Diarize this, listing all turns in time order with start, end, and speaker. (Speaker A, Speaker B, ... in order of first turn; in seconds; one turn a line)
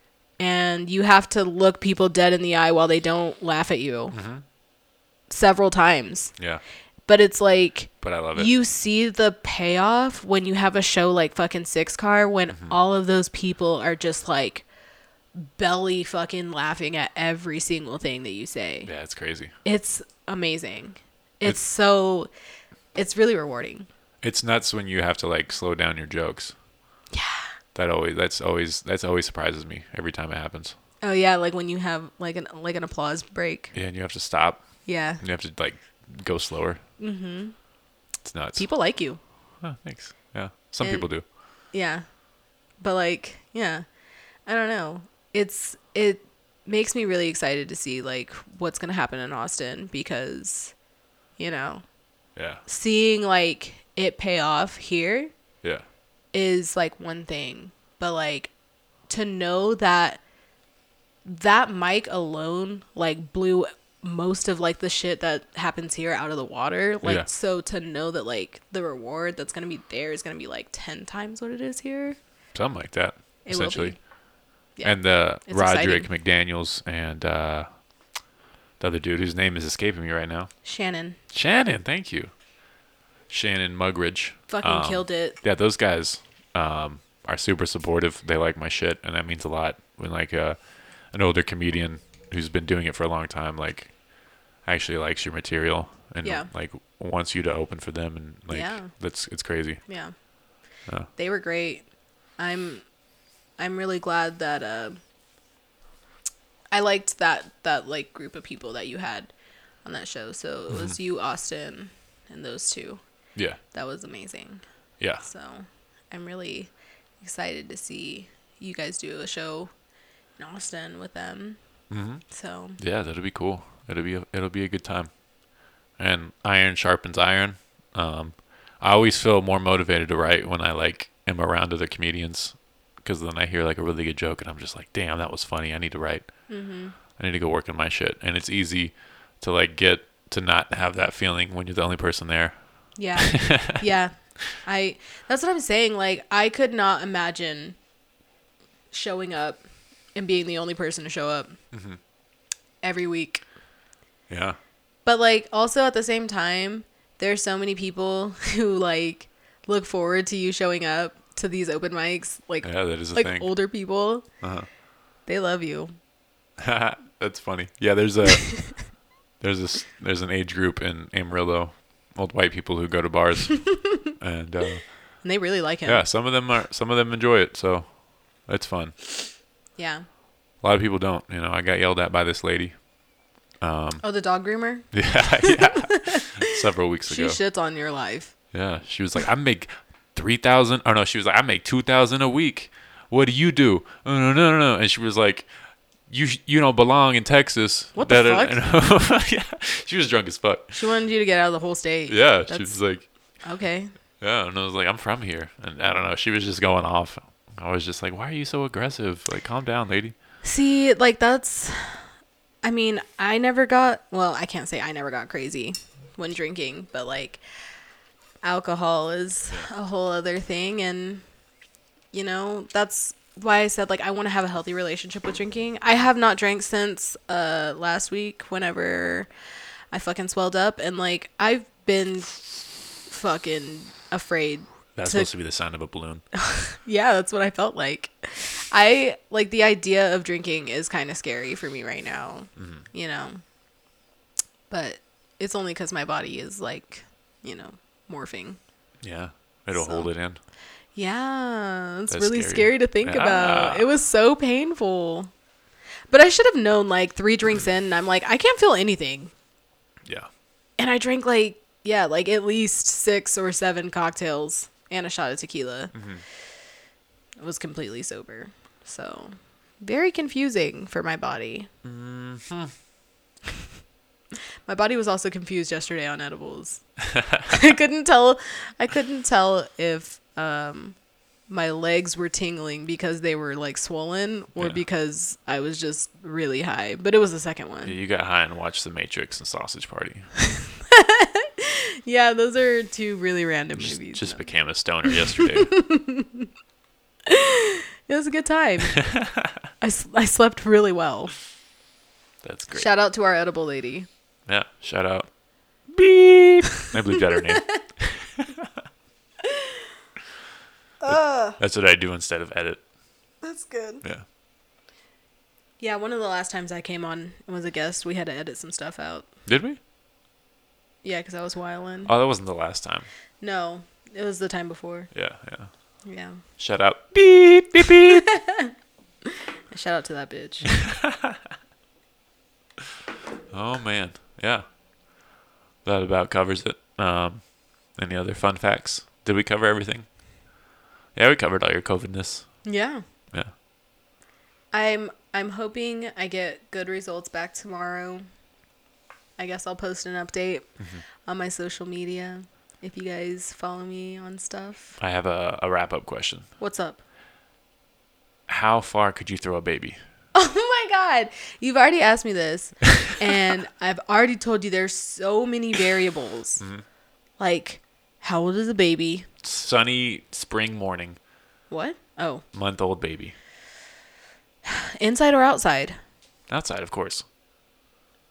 Speaker A: 0.4-4.2
Speaker B: 4.1-4.4
Speaker A: 5.3-6.5
Speaker B: 6.4-6.6
Speaker A: 7.0-14.7
Speaker B: 8.0-8.5
Speaker B: 12.5-12.8
Speaker A: 15.3-22.3
Speaker B: 18.8-19.5
Speaker A: 22.9-23.9
Speaker B: 24.2-26.5
Speaker A: 27.1-27.5
Speaker B: 27.7-30.8
Speaker A: 31.0-33.7
Speaker B: 33.7-36.8
Speaker A: 34.8-35.2
Speaker A: 37.0-37.6
Speaker B: 38.2-38.9
Speaker A: 38.5-39.2
Speaker B: 39.6-41.2
Speaker A: 40.8-42.2
Speaker A: 42.8-43.9
Speaker A: 44.4-50.8
Speaker A: 51.4-51.9
Speaker B: 52.3-52.6
Speaker A: 52.6-55.3
Speaker A: 56.3-58.5
Speaker A: 59.0-60.2
Speaker A: 61.2-72.2
Speaker B: 72.5-74.0
Speaker A: 73.4-74.0
Speaker A: 74.7-76.1
Speaker B: 74.8-77.8
Speaker B: 78.8-80.6
Speaker A: 80.6-81.2
Speaker B: 81.3-82.4
Speaker B: 83.3-100.2
Speaker A: 84.5-85.4
Speaker A: 96.2-96.5
Speaker A: 98.5-100.2
Speaker A: 101.1-103.0
Speaker A: 103.6-105.0
Speaker A: 106.7-119.7
Speaker B: 110.7-111.0
Speaker B: 115.0-115.2
Speaker A: 120.3-122.8
Speaker B: 121.9-143.8
Speaker A: 136.5-136.9
Speaker A: 142.9-147.8
Speaker A: 148.9-151.6
Speaker B: 151.7-152.0
Speaker A: 152.8-153.4
Speaker B: 154.3-154.6
Speaker A: 155.0-164.5
Speaker B: 162.6-164.7
Speaker A: 165.2-166.0
Speaker B: 166.6-175.3
Speaker A: 175.2-176.1
Speaker B: 175.8-179.0
Speaker A: 179.7-180.1
Speaker B: 180.6-182.9
Speaker B: 183.5-187.4
Speaker A: 184.0-186.2
Speaker A: 187.0-188.4
Speaker B: 188.5-200.8
Speaker A: 197.9-198.6
Speaker A: 200.7-203.9
Speaker B: 202.1-203.6
Speaker B: 204.2-210.2
Speaker A: 210.4-212.1
Speaker A: 212.6-217.4
Speaker A: 218.4-221.3
Speaker A: 222.1-229.3
Speaker A: 229.9-235.3
Speaker B: 234.9-236.2
Speaker A: 236.5-243.4
Speaker B: 242.6-242.8
Speaker A: 244.7-248.6
Speaker B: 249.0-250.4
Speaker A: 249.7-250.1
Speaker A: 250.9-255.3
Speaker B: 252.1-253.8
Speaker A: 256.1-259.3
Speaker A: 260.8-265.9
Speaker B: 265.9-266.2
Speaker A: 267.4-271.7
Speaker B: 271.8-272.7
Speaker A: 274.6-287.9
Speaker B: 284.6-284.8
Speaker B: 287.8-290.3
Speaker A: 290.9-296.5
Speaker B: 293.8-295.9
Speaker A: 297.3-299.2
Speaker A: 299.8-301.4
Speaker B: 302.4-302.9
Speaker A: 302.7-304.1
Speaker B: 304.4-305.3
Speaker B: 305.8-308.2
Speaker A: 311.0-311.6
Speaker B: 311.1-312.9
Speaker A: 313.4-314.0
Speaker A: 315.8-319.3
Speaker B: 319.4-319.8
Speaker A: 321.0-322.1
Speaker B: 322.1-323.1
Speaker A: 323.4-325.1
Speaker B: 325.1-326.0
Speaker A: 326.0-326.4
Speaker B: 326.5-328.3
Speaker A: 328.4-328.7
Speaker A: 329.7-330.8
Speaker B: 331.0-331.3
Speaker B: 333.5-334.7
Speaker B: 335.8-340.2
Speaker B: 341.1-343.5
Speaker A: 342.6-343.0
Speaker A: 344.7-348.3
Speaker A: 349.4-355.0
Speaker B: 350.8-351.0
Speaker B: 355.0-356.5
Speaker A: 356.6-357.0
Speaker B: 358.5-360.0
Speaker A: 360.3-366.8
Speaker B: 366.6-366.8
Speaker A: 367.4-369.3
Speaker B: 369.4-371.2
Speaker A: 371.7-372.4
Speaker B: 372.5-373.3
Speaker A: 374.6-376.0
Speaker B: 376.5-377.2